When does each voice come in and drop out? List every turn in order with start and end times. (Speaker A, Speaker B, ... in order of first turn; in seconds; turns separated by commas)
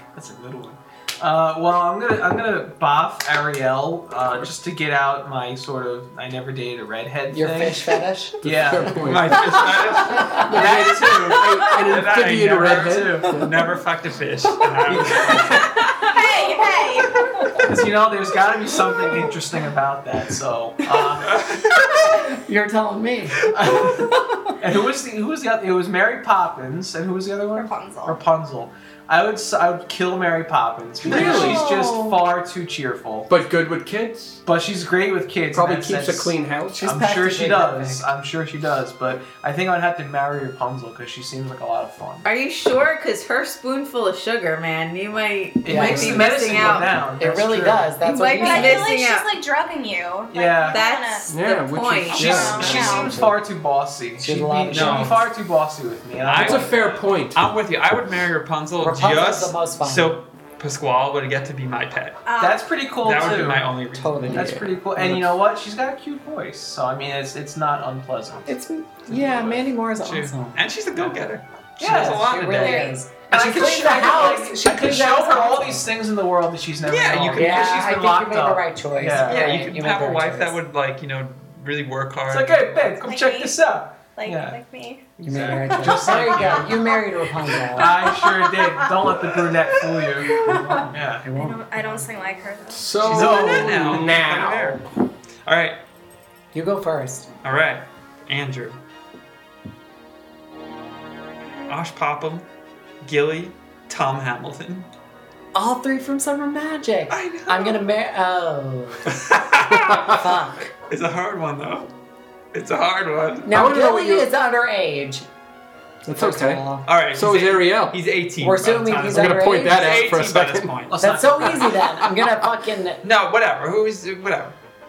Speaker A: 0.1-9.2, Speaker B: 7.3-10.8, Speaker C: 8.4-9.7, Speaker D: 9.0-11.1, Speaker C: 10.4-13.5, Speaker A: 10.5-13.4, Speaker D: 11.8-15.7, Speaker A: 14.9-15.7, Speaker E: 15.7-17.3, Speaker F: 15.8-16.1, Speaker B: 16.6-17.7, Speaker A: 17.6-21.4, Speaker D: 21.2-22.2, Speaker B: 22.3-24.5, Speaker A: 23.5-33.3, Speaker E: 27.5-28.2, Speaker C: 31.1-31.7, Speaker B: 31.1-32.2, Speaker C: 33.3-34.4, Speaker A: 34.5-42.3, Speaker C: 35.5-36.8, Speaker B: 36.7-38.1, Speaker F: 42.2-46.9, Speaker A: 45.6-48.0, Speaker B: 45.7-46.6, Speaker B: 47.2-48.9, Speaker F: 48.0-49.3, Speaker E: 48.4-51.3, Speaker A: 50.3-50.8, Speaker F: 50.7-52.5, Speaker C: 51.3-53.4, Speaker E: 52.1-53.1, Speaker A: 52.1-57.0, Speaker B: 54.2-55.2, Speaker D: 54.7-55.2, Speaker D: 56.2-62.2, Speaker C: 56.3-57.4, Speaker B: 58.8-60.2, Speaker E: 62.3-62.7, Speaker A: 62.4-63.7, Speaker D: 63.0-64.4, Speaker B: 63.9-64.8, Speaker A: 64.3-68.5, Speaker C: 64.3-65.3, Speaker B: 68.5-70.6, Speaker D: 69.1-73.0, Speaker B: 71.8-75.9, Speaker A: 71.8-79.5, Speaker D: 76.9-77.8, Speaker B: 77.3-80.6, Speaker D: 79.2-83.0, Speaker A: 82.3-84.6, Speaker E: 83.0-83.6, Speaker E: 84.2-85.0, Speaker A: 85.2-91.3, Speaker B: 85.2-88.1, Speaker D: 86.1-86.4, Speaker E: 87.8-89.3, Speaker E: 89.9-93.2, Speaker B: 90.4-92.0, Speaker C: 92.7-94.8, Speaker D: 93.0-94.9, Speaker A: 93.1-94.0, Speaker D: 95.5-95.8, Speaker B: 96.5-97.3, Speaker D: 97.4-98.8, Speaker D: 101.7-102.5, Speaker D: 103.0-104.9, Speaker B: 105.5-109.2, Speaker D: 107.1-107.8, Speaker D: 109.1-110.3, Speaker B: 110.0-110.7, Speaker D: 110.9-111.9, Speaker D: 112.5-113.6, Speaker B: 113.5-115.3, Speaker C: 113.5-114.3, Speaker C: 116.0-118.0, Speaker B: 116.2-116.9, Speaker D: 116.8-121.7, Speaker B: 118.4-120.1, Speaker C: 119.1-120.8, Speaker A: 120.9-121.8, Speaker B: 121.0-123.0, Speaker D: 123.0-124.5